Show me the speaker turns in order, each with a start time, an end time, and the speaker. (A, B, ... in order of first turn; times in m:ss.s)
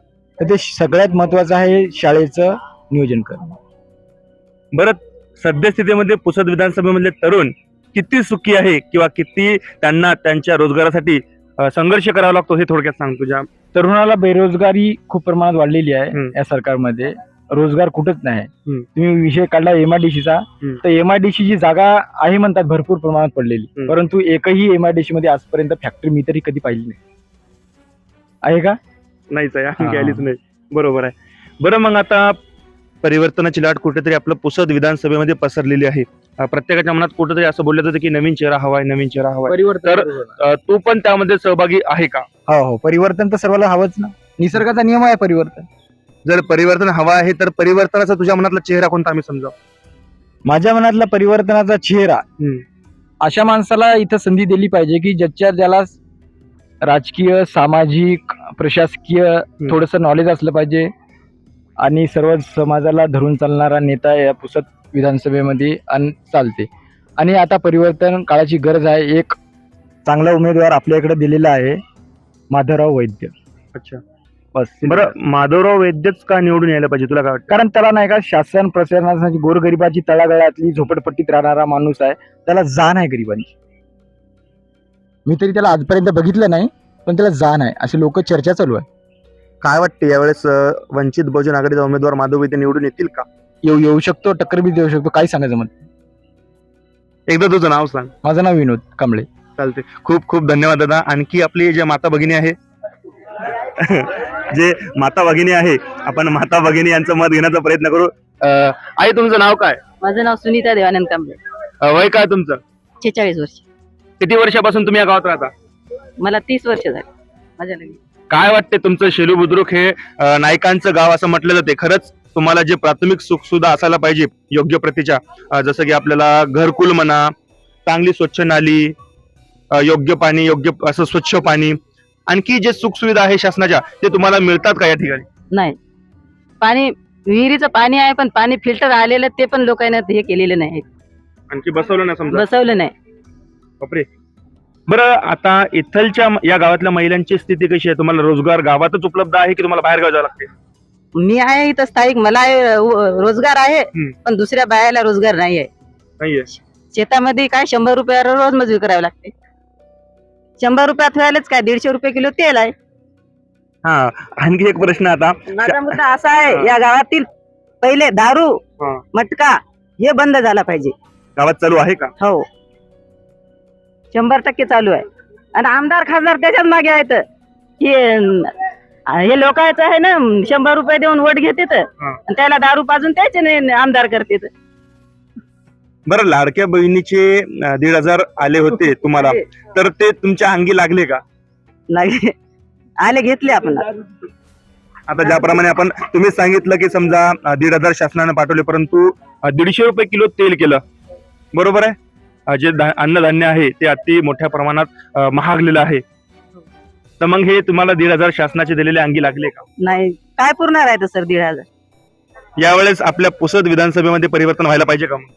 0:00.4-0:03.6 A
0:04.7-0:13.5 B
0:13.7-0:27.0 A
0:28.4-0:28.8 A
0:29.3-0:32.3 B
0:29.8-0:30.3 A
0:33.0-0:42.2 B
0:39.5-0:40.4 A
0:42.5-0:45.7 A
0:46.2-0:49.5 B
0:50.4-0:52.2 A
0:53.2-0:56.0 A
0:56.8-1:00.9 A
1:01.8-1:09.4 A
1:10.0-1:11.8 A
1:12.5-1:13.3 A
1:13.7-1:14.0 B
1:14.5-1:15.1 A
1:14.8-1:17.5 B
1:17.5-1:23.5 A
1:25.2-1:28.8 A
1:29.6-1:33.2 B
1:33.6-1:35.9 A
1:37.3-1:38.1 B
1:38.2-1:39.3 A
1:39.6-1:42.5 B
1:43.8-1:49.8 B
1:50.0-1:51.4 C
1:51.8-1:52.6 B
1:53.0-1:53.6 C
1:54.2-1:55.5 B
1:56.2-1:57.0 C
1:57.6-1:58.0 C
1:58.3-2:07.3 B
2:07.9-2:08.9 B
2:09.7-2:11.8 B
2:12.3-2:15.2 B
2:16.6-2:20.8 C
2:21.5-2:22.5 B
2:22.3-2:22.9 C
2:23.8-2:24.1 B
2:24.9-2:30.5 B
2:31.2-2:35.7 C
2:36.2-2:36.5 B
2:36.9-2:39.3 C
2:40.6-2:42.7 C
2:43.8-2:45.9 B
2:45.5-2:47.2 C
2:46.4-2:46.7 B
2:47.8-2:48.6 C
2:49.1-2:50.9 C
2:51.4-2:52.1 B
2:54.1-2:55.0 C
2:55.6-2:57.2 C
2:57.8-2:58.5 C
2:59.2-3:04.5 C
3:06.1-3:11.2 B
3:11.9-3:12.3 C
3:13.0-3:13.8 C
3:15.1-3:20.8 B
3:21.5-3:21.9 B
3:22.5-3:26.0 B
3:27.2-3:29.6 B
3:29.8-3:31.7 C
3:32.6-3:35.3 B